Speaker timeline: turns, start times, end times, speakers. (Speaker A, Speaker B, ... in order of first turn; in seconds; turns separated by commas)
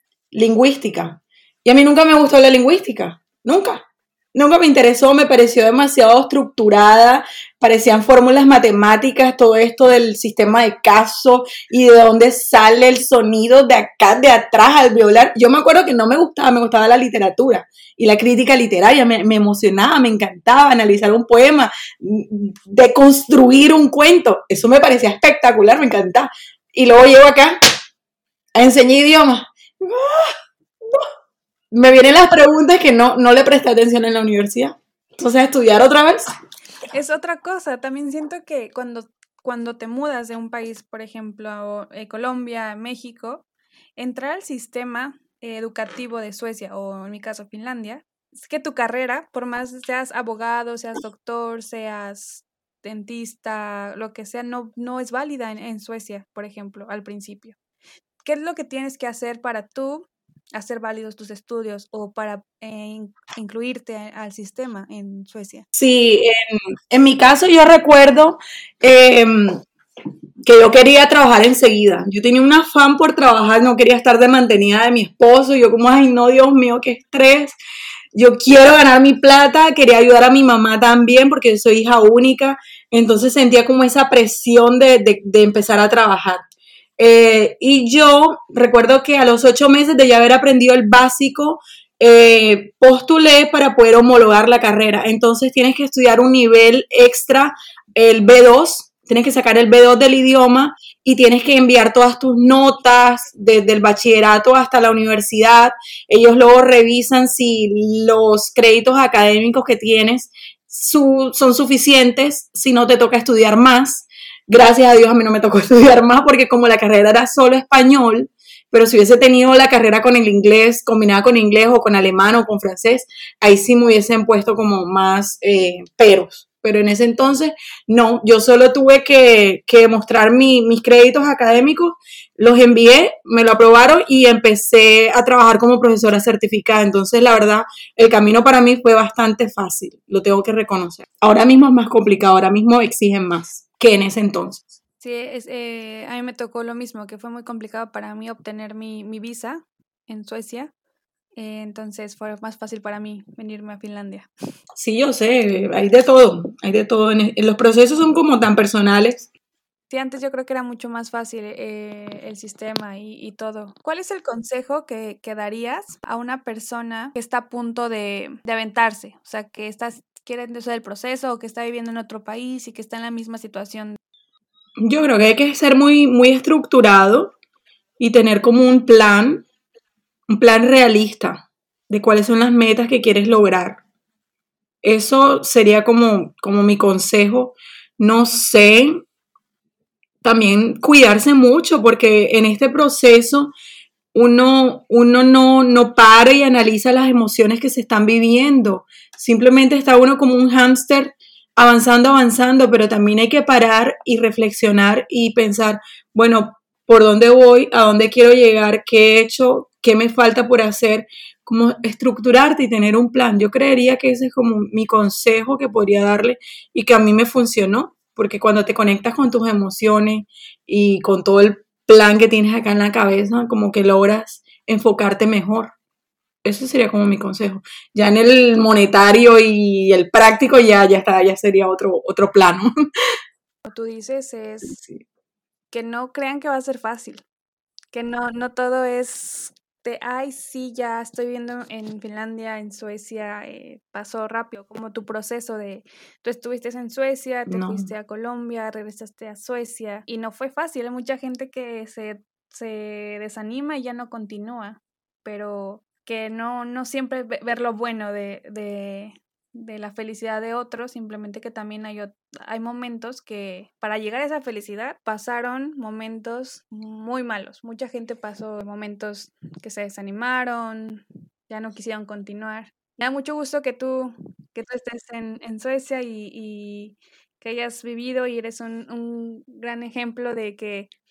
Speaker A: 0.3-27.6, Speaker A: 28.5-30.3, Speaker A: 31.7-36.3, Speaker B: 36.9-43.4, Speaker B: 44.0-57.6, Speaker B: 58.2-65.6, Speaker A: 65.7-69.6, Speaker A: 70.4-77.5, Speaker A: 78.1-86.4, Speaker A: 87.0-144.7, Speaker B: 145.0-150.7, Speaker B: 151.3-154.3, Speaker A: 154.8-159.3, Speaker B: 159.9-174.0, Speaker A: 174.8-177.3, Speaker A: 178.0-179.4, Speaker A: 180.3-183.8, Speaker A: 184.8-189.0, Speaker A: 190.2-193.5, Speaker A: 194.1-225.7, Speaker A: 226.4-232.7, Speaker B: 233.6-234.8, Speaker A: 234.6-235.0, Speaker B: 235.7-237.2, Speaker B: 237.9-280.9, Speaker A: 247.5-247.9